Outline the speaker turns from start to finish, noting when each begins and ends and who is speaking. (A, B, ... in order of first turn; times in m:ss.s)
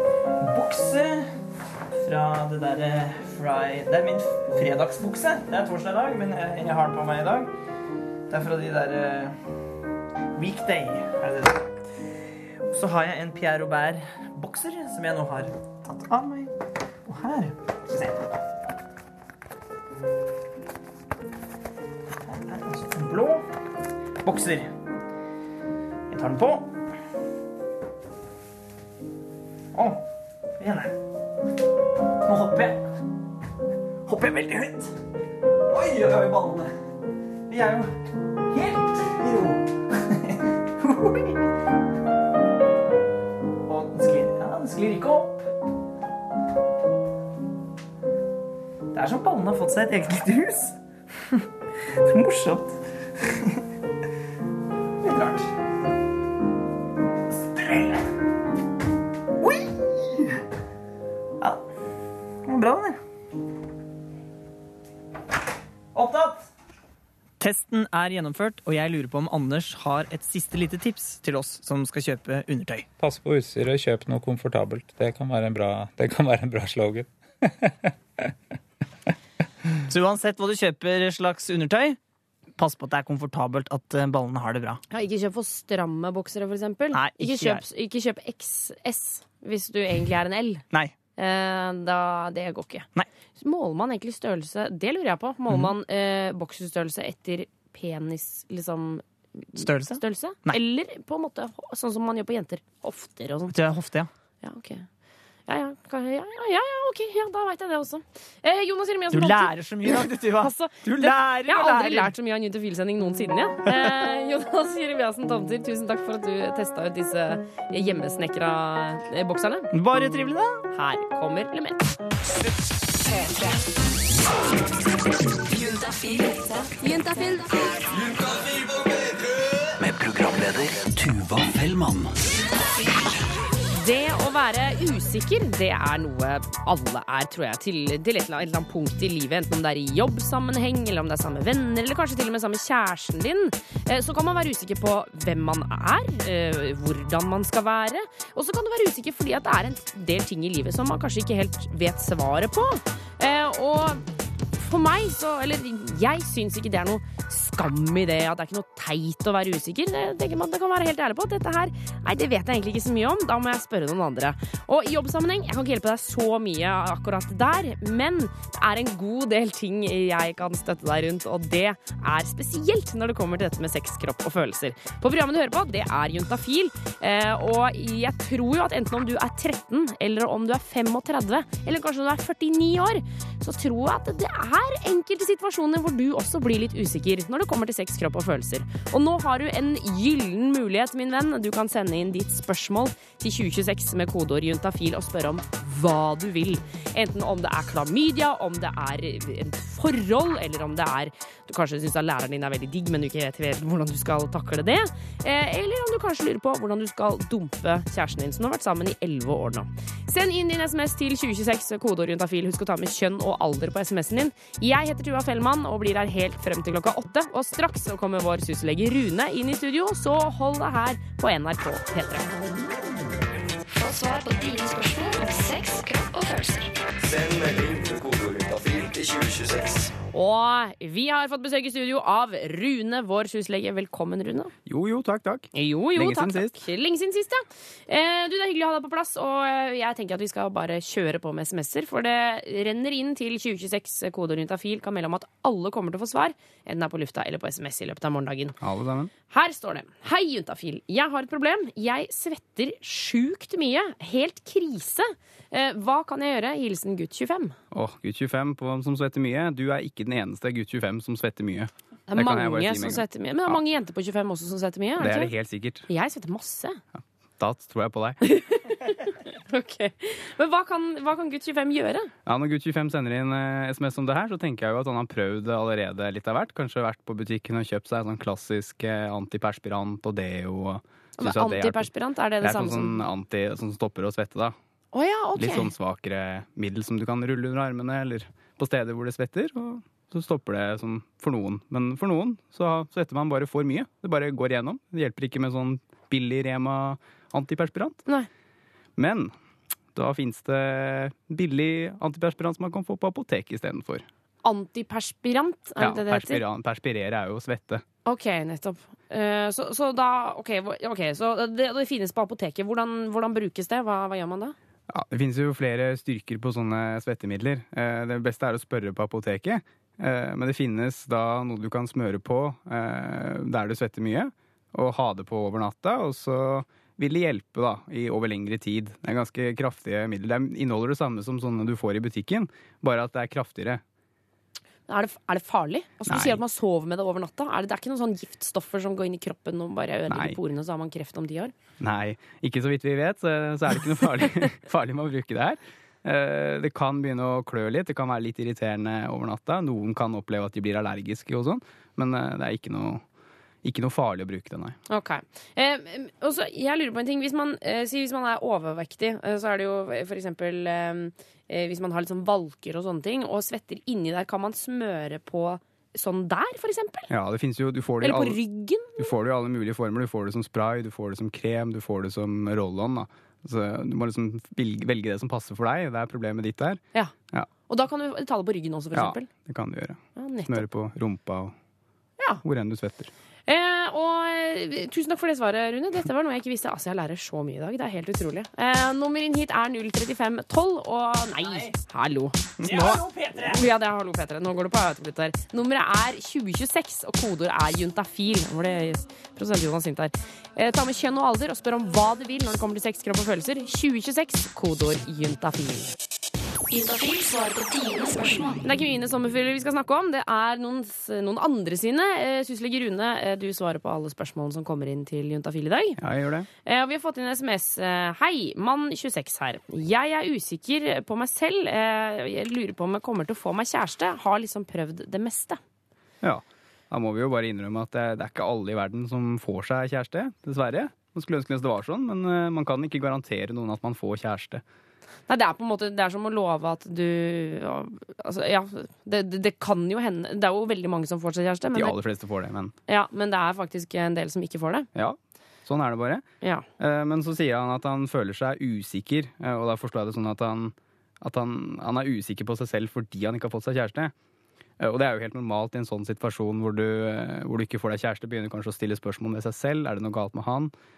0:00.4-0:01.3 A
0:01.9-0:07.5 A
0:08.3-0:09.4 A
0:10.3-0:11.7 A
0:12.7-0:16.5 A
0:17.0-0:18.3 A
0:22.2-0:23.4 A
0:24.2-0:24.7 A
0:26.1-0:26.7 A
0:29.7-0:30.0 A
0:30.6-0:30.9 A
0:32.2-0:32.8 A
0:34.0-0:34.9 A
0:35.7-0:36.7 A
0:37.5-0:37.9 A
0:38.5-0:41.4 A
0:43.6-0:45.4 A
0:48.9-0:50.8 A
0:52.0-0:53.6 A
0:55.0-0:55.5 A
0:57.3-0:58.1 A
0:59.4-1:00.2 A
1:02.4-1:03.0 A
1:05.9-1:06.5 A
1:07.4-1:12.9 A
1:13.0-1:18.3 B
1:19.9-1:22.0 A
1:22.6-1:24.8 A
1:24.9-1:30.6 C
1:26.9-1:27.6 A
1:31.2-1:32.9 C
1:33.4-1:43.5 C
1:39.6-1:40.6 A
1:43.5-1:44.1 A
1:44.4-1:44.9 C
1:45.5-1:59.7 C
1:49.1-1:52.1 A
1:59.7-2:00.6 A
2:00.7-2:01.9 C
2:03.0-2:03.6 D
2:05.5-2:07.9 D
2:09.8-2:12.2 E
2:13.7-2:34.0 C
2:34.6-3:42.4 C
3:43.7-3:46.7 D
3:50.1-3:54.5 C
3:54.6-3:56.6 F
3:55.5-4:08.6 C
4:08.6-4:09.1 F
4:09.3-4:17.6 C
4:17.7-4:23.6 F
4:22.1-4:25.3 C
4:25.0-4:25.9 F
4:25.9-4:26.8 C
4:27.4-4:28.2 F
4:28.2-4:32.1 C
4:32.2-4:41.9 F
4:41.2-4:43.0 C
4:42.4-4:44.5 F
4:44.9-4:45.7 C
4:45.4-4:58.0 F
4:59.0-4:59.3 F
4:59.9-5:04.0 F
5:04.4-5:06.4 C
5:05.8-5:07.8 F
5:08.0-5:14.5 C
5:14.9-5:33.8 F
5:34.9-5:41.5 C
5:36.0-5:36.4 F
5:40.1-5:40.4 F
5:41.8-5:53.0 F
5:53.6-5:54.8 F
5:54.9-6:07.1 C
6:07.1-6:08.4 F
6:08.0-6:09.1 C
6:09.0-6:17.5 F
6:17.7-6:19.3 C
6:18.9-6:21.5 F
6:20.2-6:20.6 C
6:22.4-6:23.1 F
6:23.5-6:45.9 C
6:31.4-6:31.7 A
6:32.6-6:33.6 A
6:46.7-6:48.6 D
6:48.6-6:56.0 C
6:56.0-6:56.5 F
6:56.6-7:05.6 C
7:06.2-7:14.6 F
7:15.3-7:21.9 C
7:21.7-7:22.7 F
7:22.9-7:24.9 C
7:24.9-7:26.2 F
7:26.8-7:34.1 F
7:34.8-7:40.7 F